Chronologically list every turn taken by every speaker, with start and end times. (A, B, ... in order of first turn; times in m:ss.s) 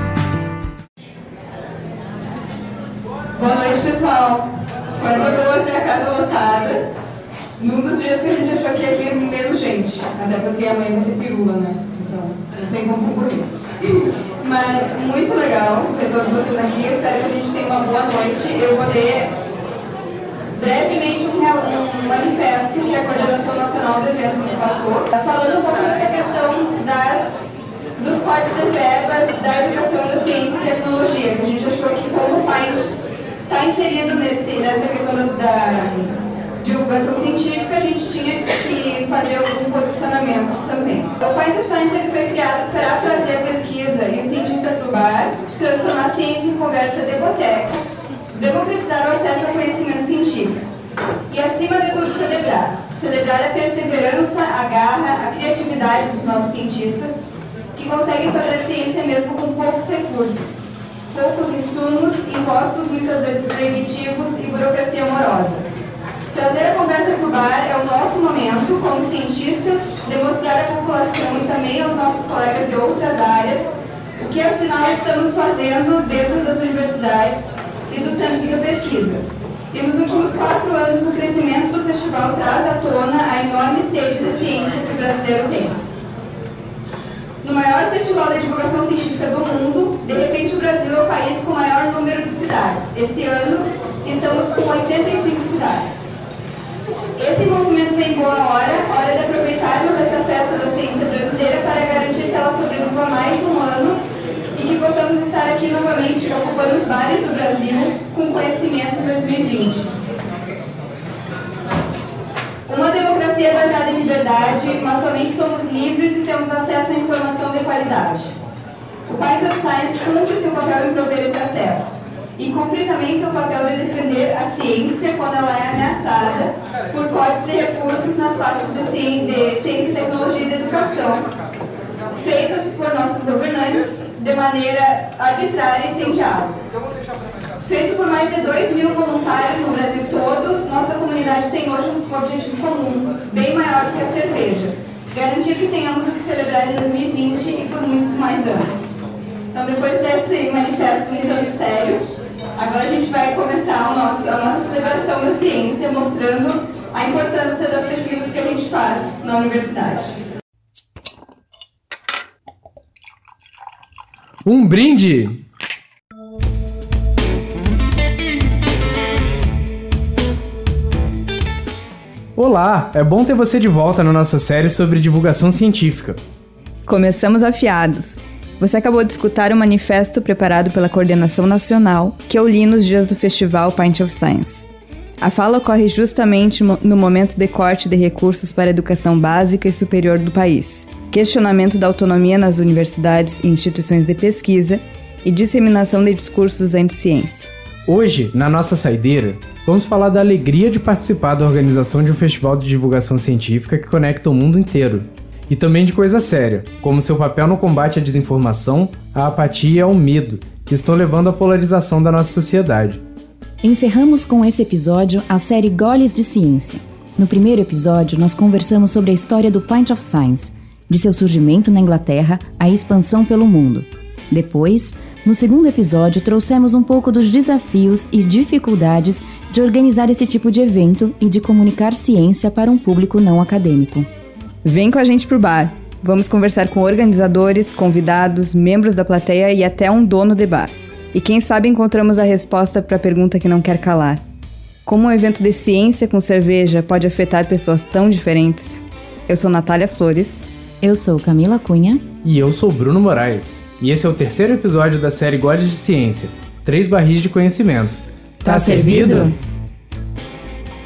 0:03.3-0:06.9 A
0:07.6-0:19.3 A
0:20.5-0:32.9 A
0:33.5-0:47.8 A
0:48.3-0:50.7 A
0:51.3-1:05.6 A
1:06.3-1:25.8 A
1:27.4-1:36.1 A
1:37.2-1:44.0 A
1:44.5-1:49.9 A
1:52.7-1:58.3 A
1:59.1-2:11.3 A
2:12.2-2:16.6 A
2:17.6-2:29.0 A
2:29.5-2:40.1 A
2:44.4-2:45.4 B
2:52.4-2:56.2 B
2:56.8-3:04.7 C
3:05.2-3:17.5 C
3:17.9-3:33.0 B
3:33.6-3:54.1 D
3:54.6-4:04.2 C
4:04.8-4:10.5 C
4:10.8-4:12.0 D
4:12.2-4:19.3 B
4:18.5-4:19.2 D
4:18.5-4:19.3 C